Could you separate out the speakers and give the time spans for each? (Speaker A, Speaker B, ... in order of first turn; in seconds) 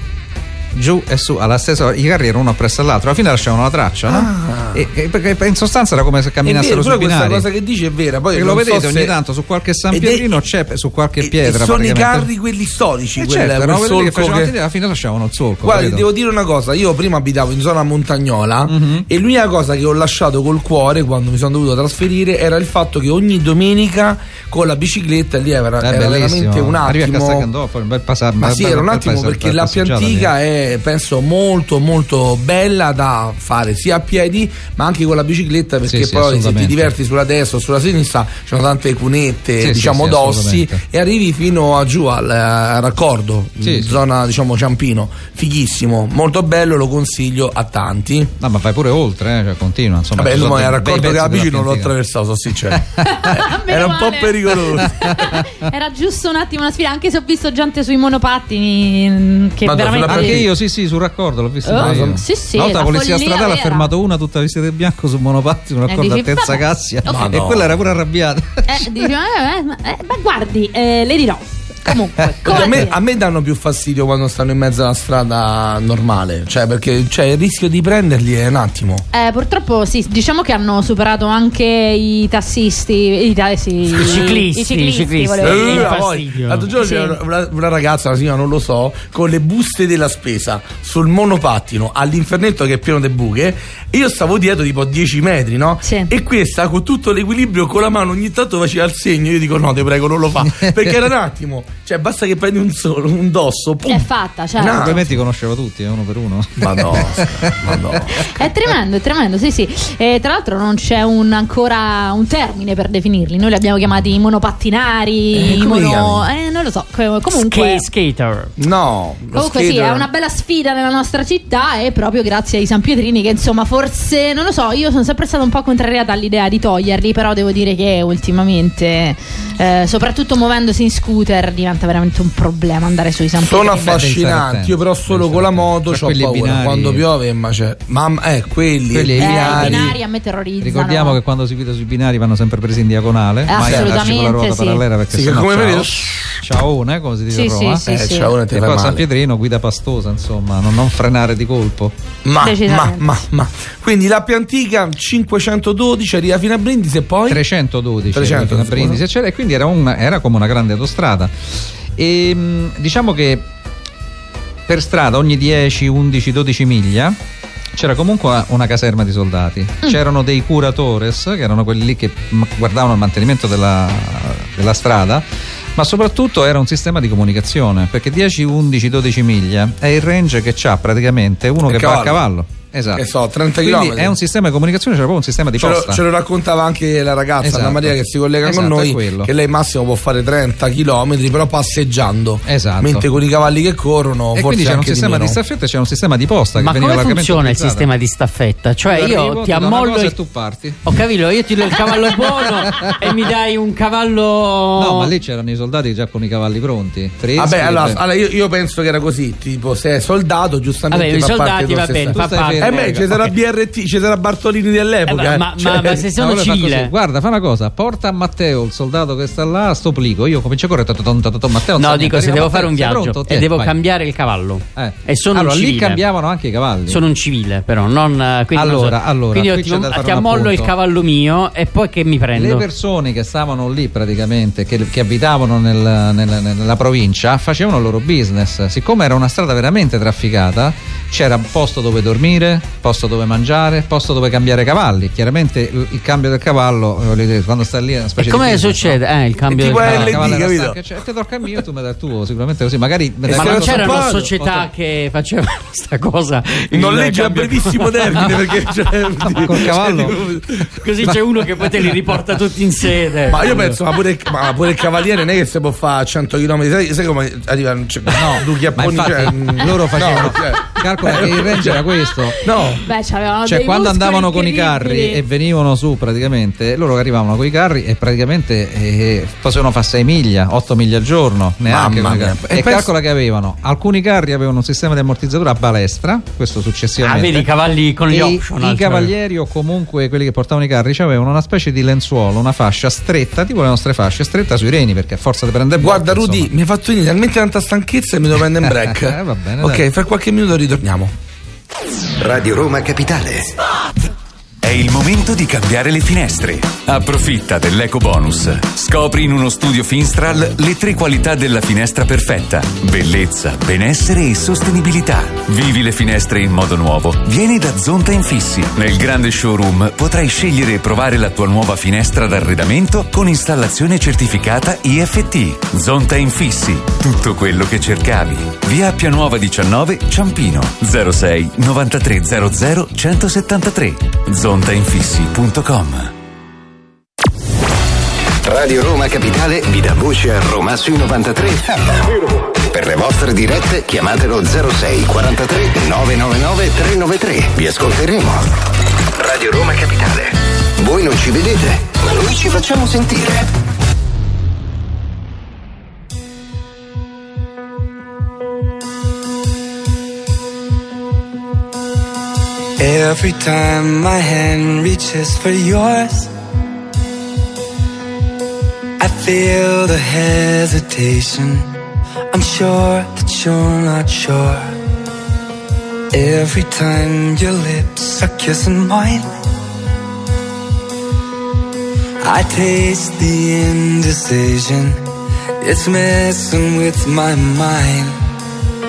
Speaker A: 0.7-7.5, 8.3-12.3, 13.2-16.1, 18.7-19.1, 25.8-30.3, 35.9-36.9, 39.6-40.8, 43.6-44.0, 48.4-51.9, 52.7-53.1, 54.9-55.4, 60.0-68.8, 71.9-72.7, 100.4-101.0, 104.6-108.1, 133.8-137.1, 138.9-140.0, 140.6-147.9, 148.5-151.9, 157.3-161.3, 161.9-163.4, 164.7-167.2, 167.7-183.1, 183.6-186.0, 187.4-189.3, 192.4-193.1, 194.3-197.9, 198.8-200.9, 202.6-203.0, 204.8-208.0, 212.1-213.3, 216.1-223.7, 224.8-227.0, 228.5-230.7, 232.3-249.0, 249.6-254.7, 259.3-260.1, 268.1-272.4, 273.4-287.5, 288.1-296.5, 298.6-299.9
Speaker B: 4.1-4.8, 6.4-9.1, 9.9-10.4, 11.2-14.5, 15.6-27.5, 28.4-48.3, 50.1-55.2, 59.6-60.5, 61.7-62.2, 67.0-67.8, 72.4-79.0, 83.9-84.3, 85.4-105.0, 106.6-108.3, 115.3-116.2, 118.6-120.1, 133.4-139.9, 143.6-144.0, 145.1-146.4, 147.8-149.0, 152.2-157.4, 158.1-159.0, 181.7-182.2, 182.9-184.1, 185.6-195.4, 207.4-216.0, 249.5-250.8, 253.2-254.3, 256.7-260.8, 263.3-271.8, 272.4-272.8, 281.7-282.9, 295.8-301.1
Speaker C: 53.0-60.5, 61.6-63.9, 65.9-67.3, 68.7-73.0, 79.1-86.0, 86.8-87.2, 95.8-96.1, 103.9-105.0, 108.1-117.9, 119.3-134.0, 139.2-141.2, 143.4-144.8, 147.3-148.3, 152.4-153.1, 272.8-275.2
Speaker D: 84.0-86.7, 117.3-118.5, 196.6-200.2, 200.8-205.1, 210.9-213.1, 215.1-216.9, 221.8-226.0, 226.9-232.6, 248.2-250.3, 253.3-258.6, 260.7-263.8, 287.0-289.1
Speaker E: 302.2-303.5, 338.4-348.5, 349.1-353.5
Speaker F: 304.6-336.1
Speaker G: 362.8-366.3, 369.0-371.7, 372.3-374.7, 376.1-379.3, 382.2-385.0, 385.6-388.1